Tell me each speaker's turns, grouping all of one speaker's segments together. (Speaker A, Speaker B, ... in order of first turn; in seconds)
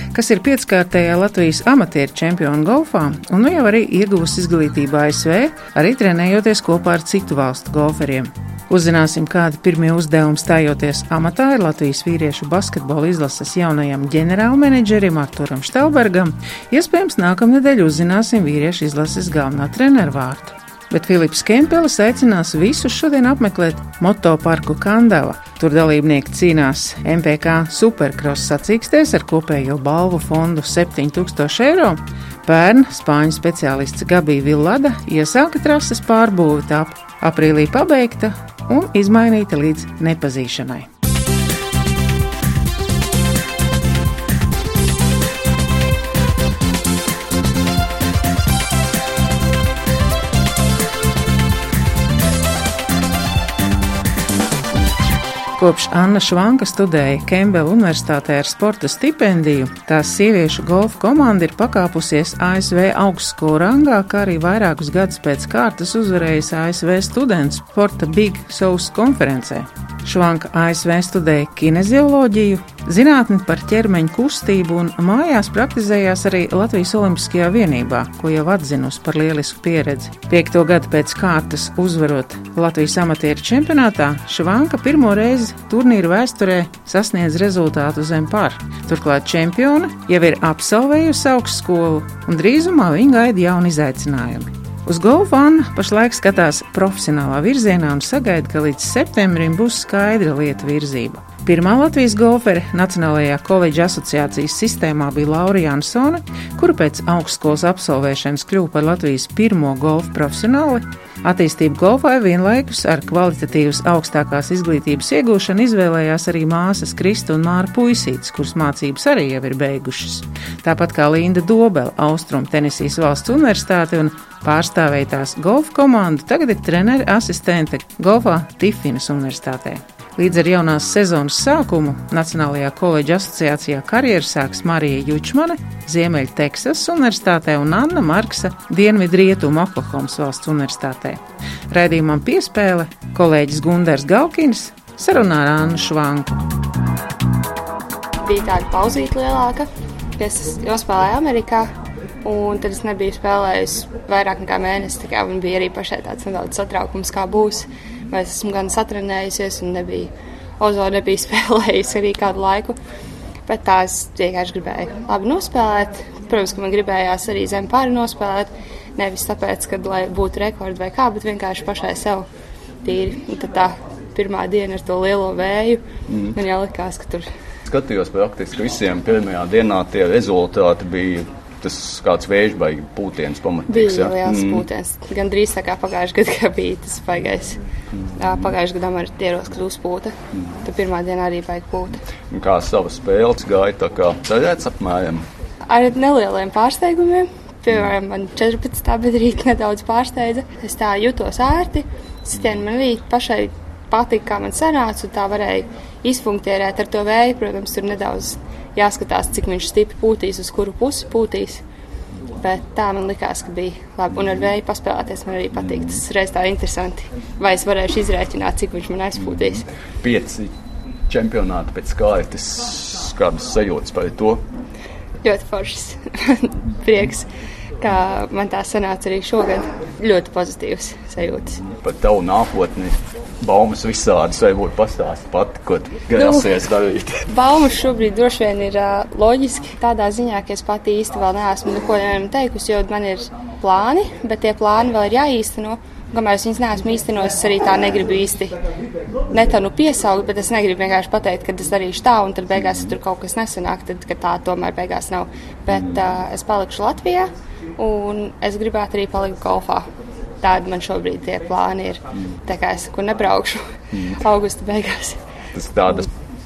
Speaker A: 0.1-40.9, 55.6-146.4
Speaker B: 148.2-151.7, 152.2-162.8, 163.5-172.3, 172.8-175.8, 176.3-177.3, 183.7-187.6, 188.2-192.0, 195.7-211.6, 212.4-219.7, 225.2-227.3, 227.8-231.6, 236.1-236.5, 237.3-248.6, 249.3-259.9, 260.4-265.2
Speaker C: 176.1-176.3, 177.7-184.6, 192.3-195.2, 219.2-220.5, 221.1-224.4, 231.7-237.2, 263.9-264.2, 265.5-266.1